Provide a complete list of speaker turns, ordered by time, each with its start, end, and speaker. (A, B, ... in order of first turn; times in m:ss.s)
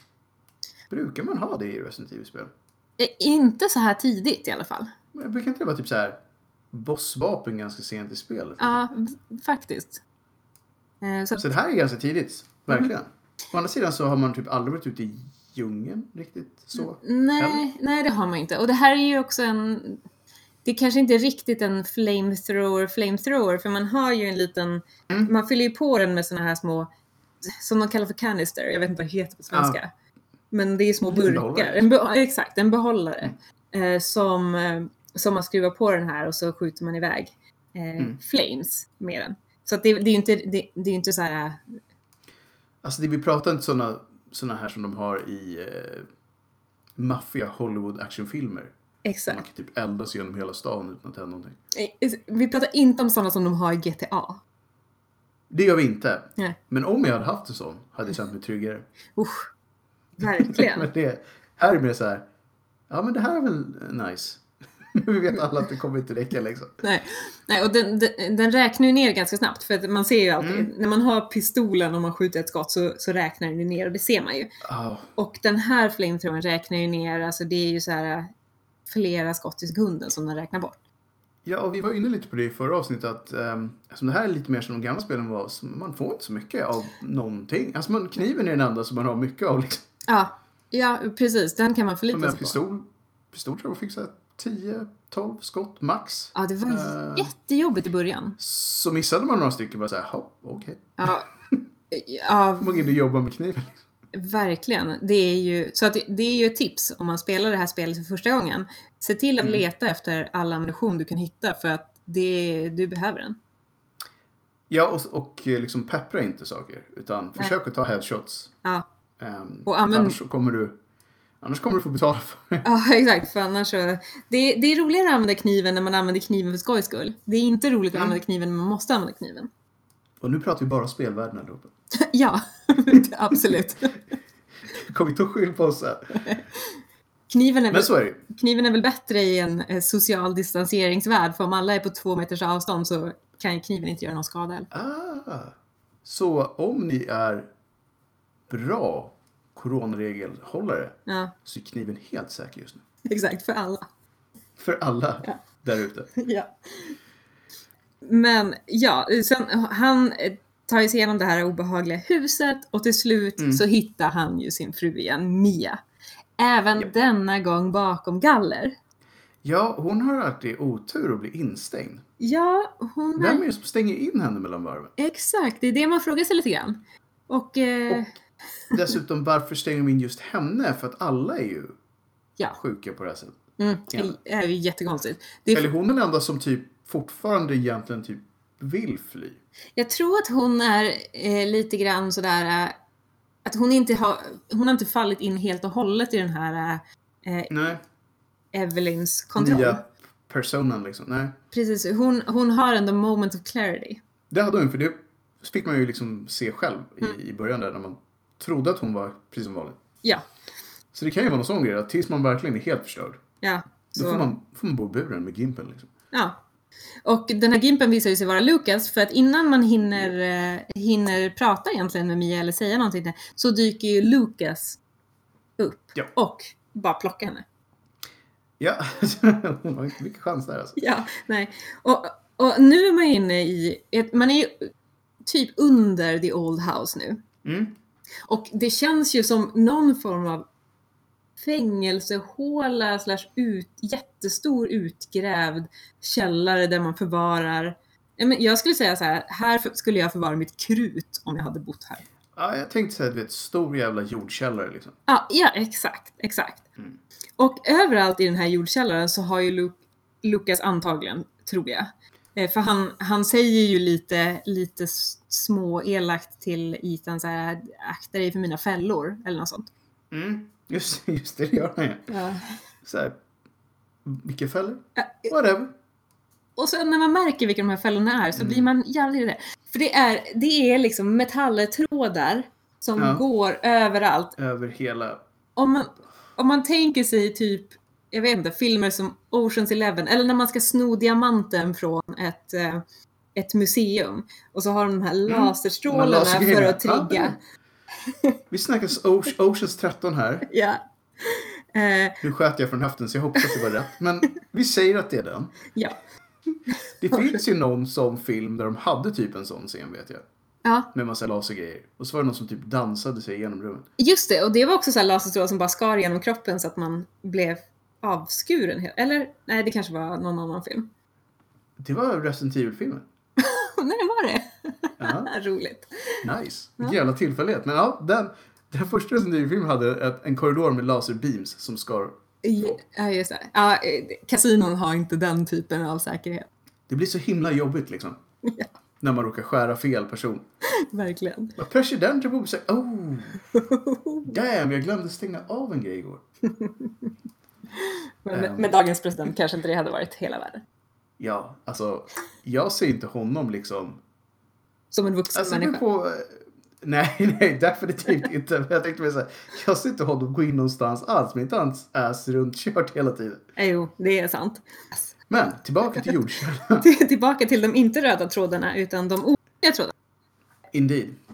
0:00.9-0:02.5 A
0:03.0-0:04.9 B
0:05.1-0:06.2 A
0:06.7-0:08.8 A
0:08.6-0:10.0 B
0:11.0-0:11.5 B
0:11.4-0:17.6 A
0:16.8-0:20.0 B
0:20.6-0:26.9 B
0:27.4-0:29.9 B
0:29.5-0:29.8 A
0:30.5-0:41.8 B
0:31.1-0:31.9 A
0:42.8-0:46.1 A
0:47.0-0:48.7 A
0:49.0-0:49.4 B
0:49.3-0:51.6 A
0:51.7-0:54.4 B
0:55.5-0:58.9 A
0:59.2-0:59.5 B
1:00.2-1:00.9 B
1:00.2-1:02.3 A
1:02.9-1:04.4 A
1:04.9-1:06.8 A
1:06.8-1:14.5 B
1:10.4-1:10.7 A
1:14.6-1:15.1 A
1:15.2-1:18.3 B
1:18.9-1:20.8 B
1:21.5-1:29.8 A
1:30.1-1:32.6 B
1:32.1-1:37.3 A
1:36.3-1:38.4 B
1:38.4-1:41.0 A
1:41.0-1:41.3 B
1:41.9-1:42.9 B
1:42.6-1:43.8 A
1:44.1-1:53.4 B
1:54.7-1:58.5 A
1:59.2-2:00.8 A
1:59.7-2:00.2 B
2:01.4-2:02.6 A
2:02.6-2:09.5 B
2:10.2-2:11.7 A
2:12.0-2:14.0 B
2:14.7-2:16.3 A
2:17.3-2:24.7 B
2:17.7-2:18.2 A
2:24.7-2:27.5 A
2:28.5-2:32.8 A
2:31.1-2:31.3 B
2:33.0-2:33.9 B
2:34.6-2:36.1 A
2:36.2-2:37.0 B
2:38.0-2:45.8 B
2:43.4-2:43.6 A
2:46.4-2:48.8 B
2:49.4-2:52.0 A
2:52.2-2:53.4 B
2:53.2-2:54.9 A
2:55.0-2:58.1 B
2:58.7-3:01.8 A
3:02.6-3:03.4 A
3:03.6-3:05.7 B
3:03.9-3:04.2 A
3:05.5-3:09.4 A
3:09.8-3:12.8 B
3:13.4-3:17.5 B
3:17.5-3:17.8 A
3:18.5-3:19.8 B
3:19.4-3:21.4 A
3:21.5-3:24.0 B
3:24.3-3:29.8 A
3:30.9-3:33.2 A
3:33.4-3:34.3 B
3:34.0-3:35.9 A
3:36.1-3:36.4 B
3:37.0-3:44.8 B
3:45.6-3:47.4 B
3:48.6-3:50.8 A
3:50.8-3:54.7 B
3:55.2-3:57.2 B
3:57.4-3:57.7 A
3:58.2-4:00.5 B
4:01.4-4:12.0 B
4:12.4-4:15.0 A
4:15.1-4:16.7 B
4:17.4-4:29.7 B
4:30.1-4:32.1 A
4:32.1-4:32.4 B
4:32.8-4:33.2 A
4:34.0-4:35.7 A
4:36.6-4:44.4 B
4:38.4-4:38.7 A
4:43.0-4:43.2 A
4:44.4-4:45.2 A
4:45.6-4:52.8 B
4:53.4-4:57.4 B
4:55.3-4:57.4 A
4:58.1-4:58.4 B
4:58.5-5:00.5 A
5:00.5-5:02.2 B
5:02.2-5:05.6 A
5:03.4-5:03.7 B
5:07.0-5:10.2 A
5:07.1-5:07.4 B
5:10.6-5:10.9 B
5:10.9-5:13.9 A
5:14.0-5:20.9 B
5:21.8-5:23.0 A
5:23.4-5:26.2 B
5:25.0-5:25.3 A
5:26.2-5:32.8 A
5:32.4-5:36.5 B
5:36.9-5:38.2 A
5:39.0-5:40.4 A
5:40.7-5:41.5 B
5:41.6-5:43.4 A
5:43.5-5:44.3 B
5:44.2-5:46.2 A
5:46.5-5:47.1 B
5:47.7-5:50.6 B
5:48.3-5:48.7 A
5:51.2-5:54.0 A
5:54.9-5:55.8 B
5:55.3-6:03.4 A
6:03.6-6:05.0 B
6:05.3-6:06.9 A
6:06.8-6:09.9 B
6:10.7-6:11.2 A